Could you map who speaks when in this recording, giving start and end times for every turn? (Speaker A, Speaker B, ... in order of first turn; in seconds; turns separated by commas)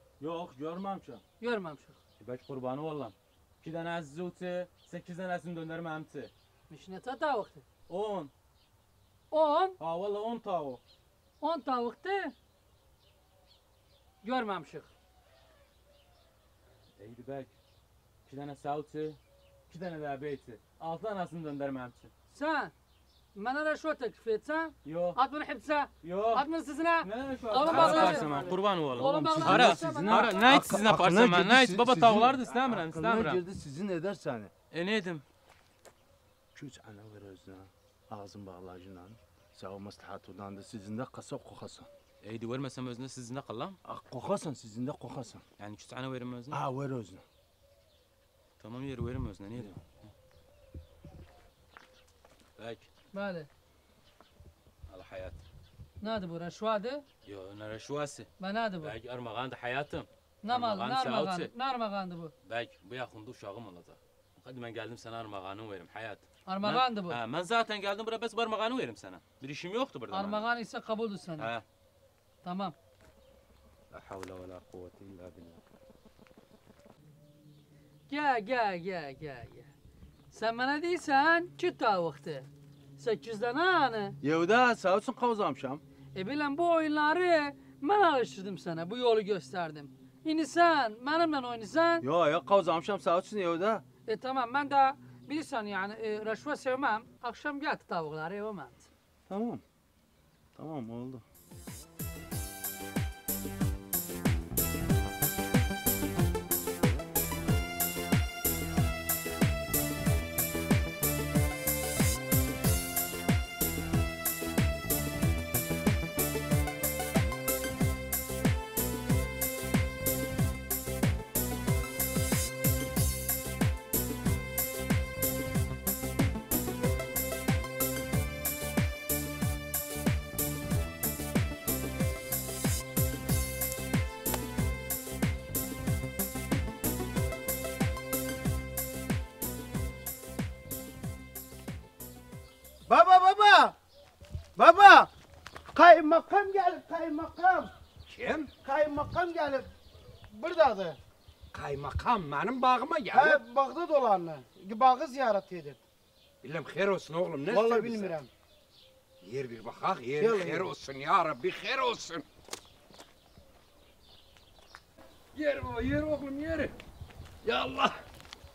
Speaker A: 0.2-1.2, Speaker B: 1.4-2.0, Speaker C: 2.2-6.3, Speaker B: 6.7-7.7, Speaker C: 7.9-8.3, Speaker B: 9.3-9.8, Speaker C: 9.8-10.8, Speaker B: 11.4-12.3, Speaker B: 14.2-14.9, Speaker C: 17.0-17.5, Speaker C: 18.3-19.2, Speaker C: 19.7-22.1, Speaker B: 22.3-22.7, Speaker B: 23.4-30.8, Speaker C: 24.9-25.2, Speaker C: 26.0-26.4, Speaker C: 27.0-33.4, Speaker A: 27.6-34.5, Speaker C: 34.7-35.2, Speaker A: 36.5-41.9, Speaker C: 42.2-43.8, Speaker A: 43.9-45.4, Speaker C: 45.6-46.6, Speaker A: 46.5-47.2, Speaker C: 48.6-50.1, Speaker C: 52.6-52.9, Speaker B: 53.1-53.5, Speaker C: 54.9-55.4, Speaker B: 56.0-57.0, Speaker C: 57.3-58.3, Speaker B: 58.4-58.9, Speaker C: 58.8-61.5, Speaker B: 60.4-62.3, Speaker C: 62.5-70.5, Speaker B: 66.5-67.2, Speaker B: 70.1-71.5, Speaker C: 71.4-71.6, Speaker B: 72.4-72.8, Speaker C: 73.9-75.6, Speaker B: 78.1-79.7, Speaker B: 80.3-82.5, Speaker B: 83.0-84.2, Speaker A: 84.2-85.8, Speaker B: 86.2-92.0, Speaker A: 92.0-93.8, Speaker B: 94.1-98.9, Speaker A: 99.3-99.6, Speaker A: 100.6-101.2, Speaker D: 142.9-143.8, Speaker D: 144.6-145.1, Speaker D: 145.7-147.7, Speaker E: 148.1-148.5, Speaker D: 148.7-149.7, Speaker D: 150.3-151.0, Speaker E: 151.5-153.4, Speaker D: 153.1-155.8, Speaker E: 156.4-158.1, Speaker D: 157.5-158.3, Speaker E: 159.2-162.2, Speaker D: 160.2-160.7, Speaker E: 165.3-166.7, Speaker E: 167.4-168.0